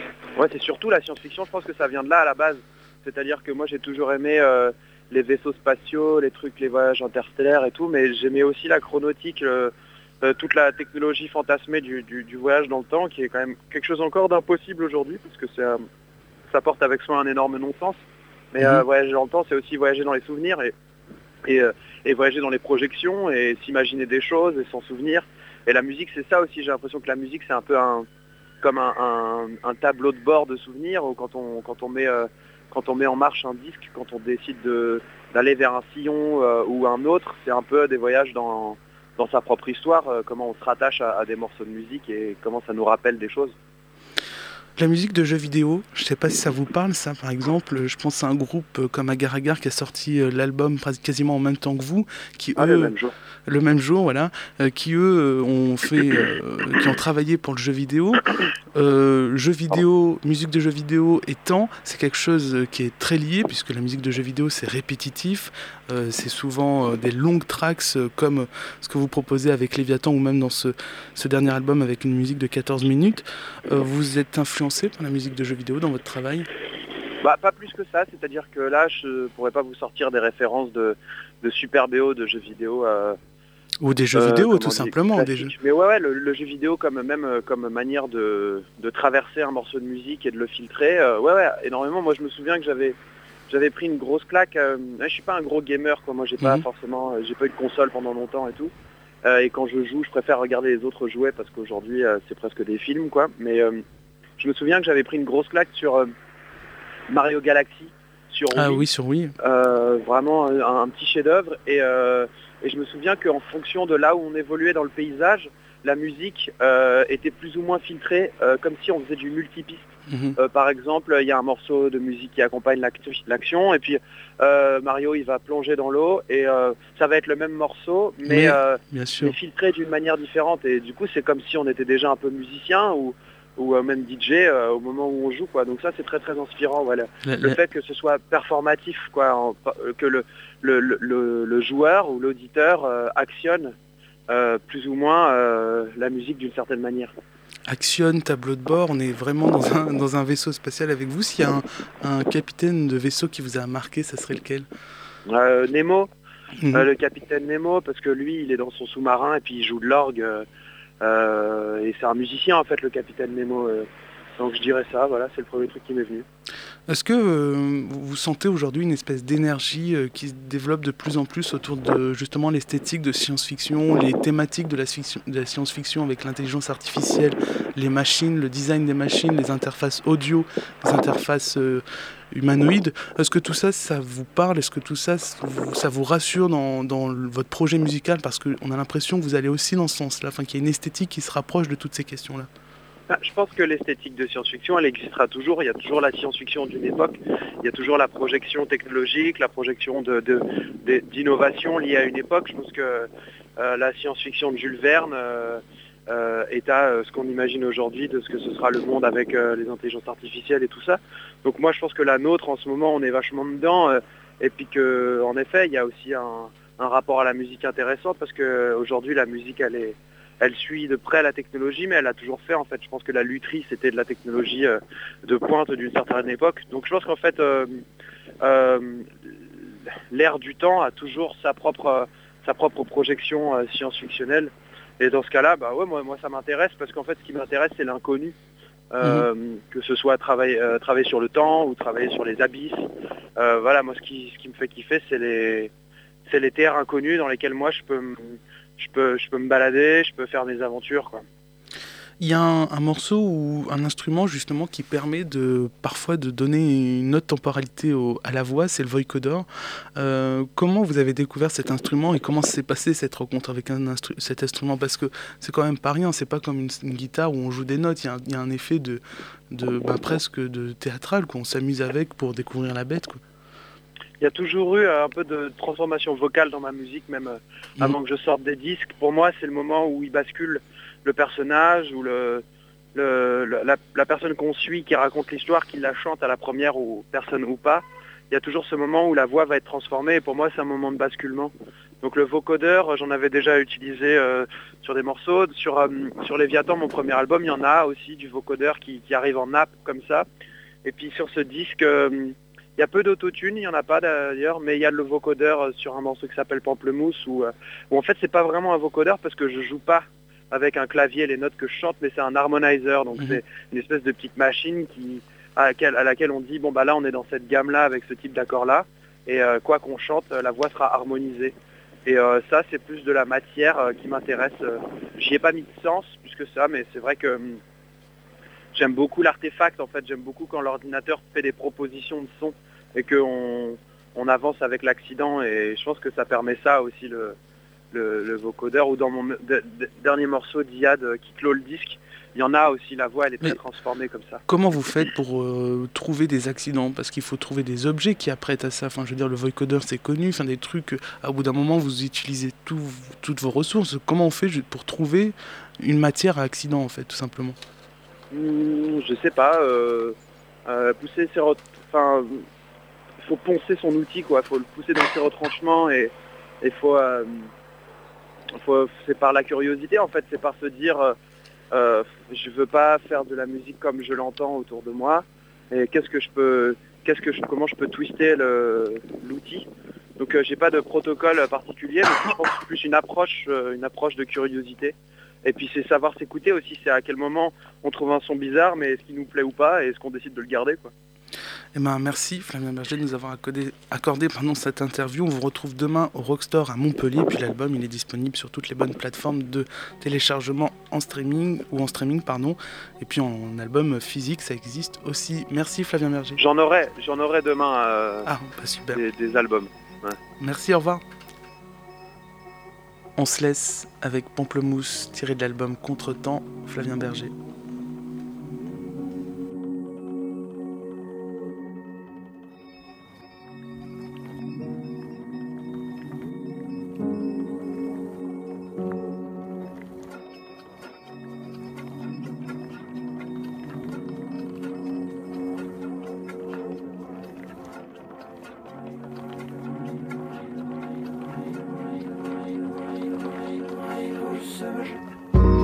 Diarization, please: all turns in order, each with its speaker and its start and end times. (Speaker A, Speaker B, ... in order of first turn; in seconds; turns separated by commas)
Speaker A: 0.3-15.8, Speaker A: 16.5-18.0, Speaker A: 18.5-20.7, Speaker A: 21.4-28.0, Speaker A: 28.6-43.5, Speaker B: 44.8-52.9, Speaker A: 52.5-53.1, Speaker B: 53.5-76.5, Speaker A: 77.2-83.2, Speaker B: 83.8-85.5, Speaker A: 84.1-93.0, Speaker A: 93.5-98.7, Speaker A: 99.2-103.8, Speaker A: 104.4-106.1, Speaker A: 107.1-108.8, Speaker B: 108.5-109.3, Speaker A: 109.4-143.7, Speaker B: 120.1-120.3, Speaker B: 128.2-129.3, Speaker B: 137.2-137.6, Speaker A: 144.3-147.1, Speaker B: 147.7-154.7, Speaker A: 155.3-156.1, Speaker B: 156.6-156.9, Speaker A: 156.7-160.4, Speaker A: 161.0-163.8, Speaker A: 164.4-166.2, Speaker B: 166.9-192.5, Speaker A: 193.1-227.8, Speaker A: 228.4-238.3, Speaker A: 238.9-245.7, Speaker B: 239.0-239.3, Speaker A: 246.2-251.2, Speaker B: 252.2-273.2, Speaker A: 274.2-300.2, Speaker A: 300.8-321.5, Speaker A: 322.1-327.6, Speaker A: 328.7-337.4, Speaker A: 337.9-344.4, Speaker B: 344.5-357.6, Speaker A: 358.3-360.1, Speaker A: 360.6-362.4, Speaker A: 363.2-367.5, Speaker A: 368.6-371.1, Speaker A: 371.7-379.6, Speaker A: 380.2-390.9, Speaker B: 391.7-406.4, Speaker A: 406.4-408.3, Speaker B: 408.2-409.0, Speaker A: 408.9-410.2, Speaker B: 410.4-411.0, Speaker B: 413.2-417.3